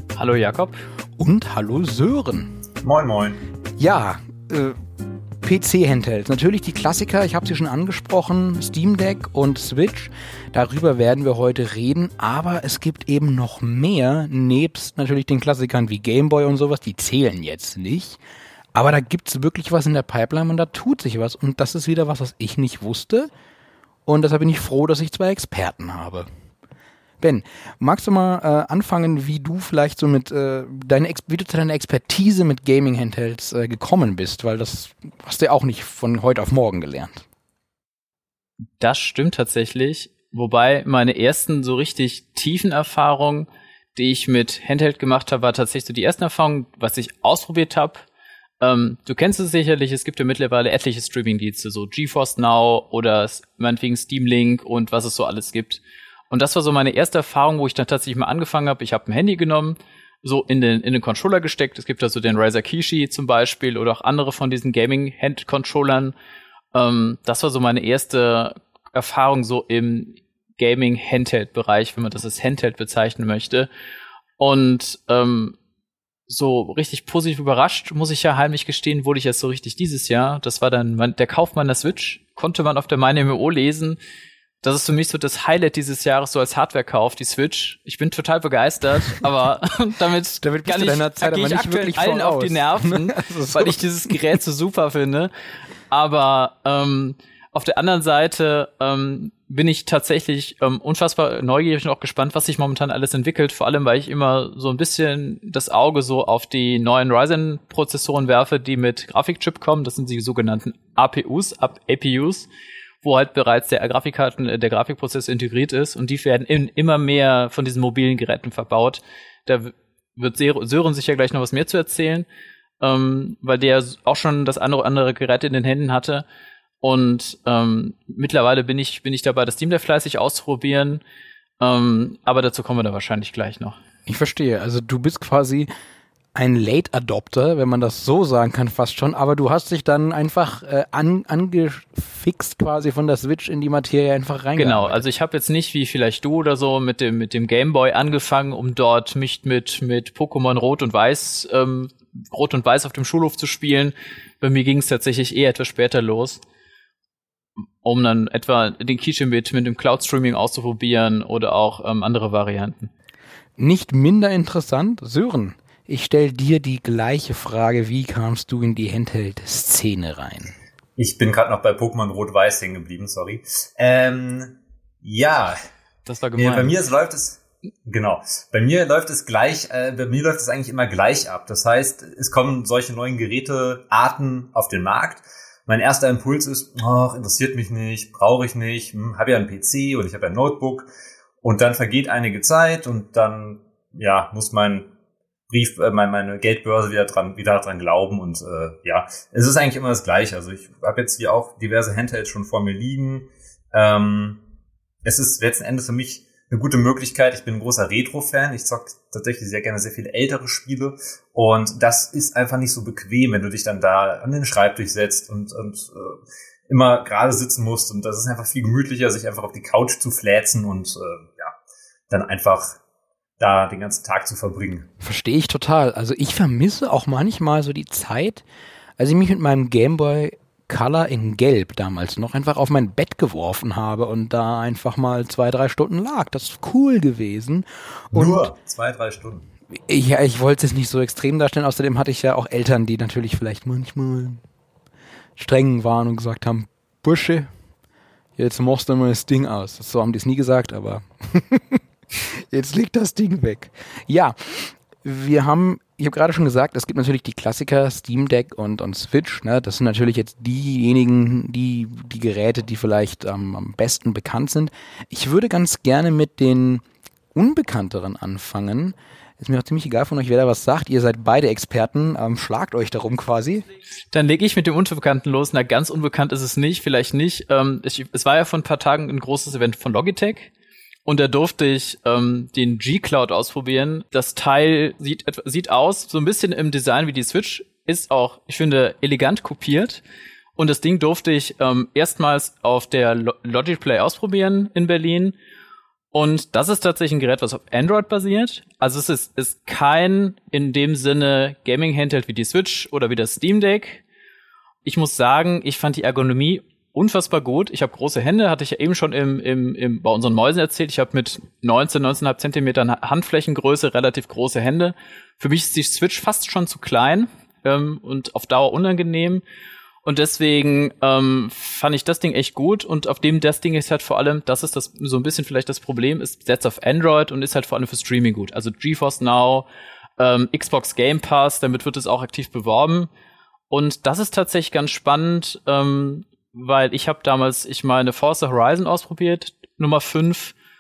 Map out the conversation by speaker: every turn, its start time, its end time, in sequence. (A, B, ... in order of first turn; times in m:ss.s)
0:00.2-0:00.8 A
0:01.2-0:02.5 B
0:02.8-0:03.4 C
0:03.8-0:04.8 B
0:05.4-0:18.2 B
0:18.7-0:23.3 B
0:24.0-0:26.2 B
0:27.2-0:37.2 B
0:38.8-0:48.0 A
0:48.6-1:06.1 A
1:06.7-1:13.7 A
1:14.4-1:15.6 A
1:16.3-1:24.0 A
1:24.6-1:35.3 A
1:30.4-1:34.2 B
1:35.9-1:52.5 A
1:53.0-2:02.2 A
2:02.8-2:06.2 A
2:06.8-2:11.0 A
2:11.6-2:13.8 A
2:14.1-2:15.7 B
2:16.3-2:25.0 B
2:24.6-2:36.4 A
2:37.8-2:42.9 A
2:43.6-2:50.5 B
2:51.0-2:55.6 C
2:56.1-2:56.8 A
2:56.4-3:10.9 C
3:11.4-3:14.9 C
3:15.5-3:24.4 C
3:25.0-3:41.5 C
3:42.1-3:42.8 C
3:43.4-3:44.9 C
3:45.0-3:48.4 B
3:49.0-3:58.5 B
3:58.1-3:59.4 C
3:59.8-4:04.4 B
4:05.4-4:07.5 B
4:08.4-4:26.8 B
4:27.4-4:33.6 B
4:34.1-4:40.5 A
4:41.0-4:50.0 A
4:50.6-4:55.4 A
4:56.1-5:04.0 A
5:04.8-5:19.4 A
5:20.0-5:29.7 A
5:30.2-5:33.1 A
5:33.7-5:40.5 A